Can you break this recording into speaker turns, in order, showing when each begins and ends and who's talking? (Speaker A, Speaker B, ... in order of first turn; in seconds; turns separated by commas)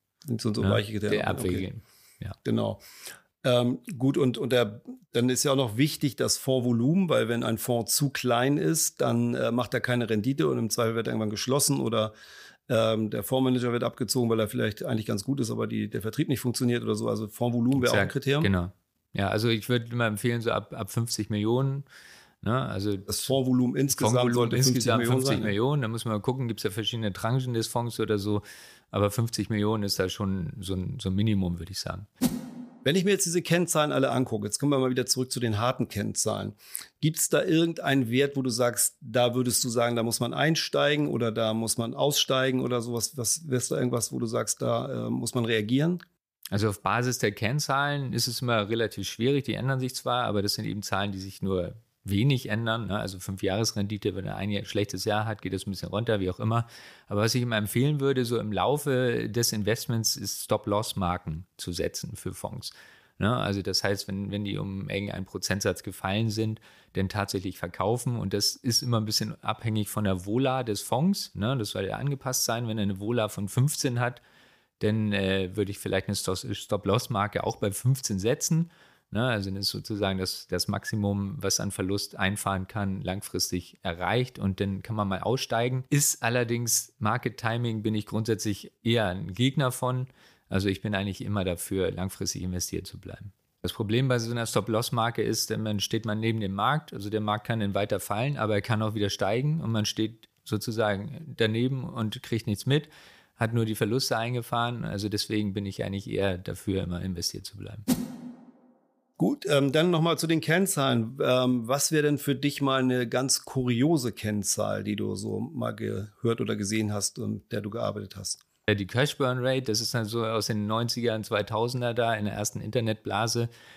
Speaker A: 0.3-1.7, Speaker B: 0.6-2.4, Speaker A: 2.5-2.8, Speaker A: 3.4-12.1, Speaker A: 12.7-18.5, Speaker B: 17.7-21.9, Speaker B: 22.4-23.3, Speaker A: 23.1-25.6, Speaker B: 23.9-32.1, Speaker A: 32.8-46.0, Speaker B: 46.5-74.2, Speaker B: 74.8-107.8, Speaker A: 109.2-118.4, Speaker B: 118.7-123.5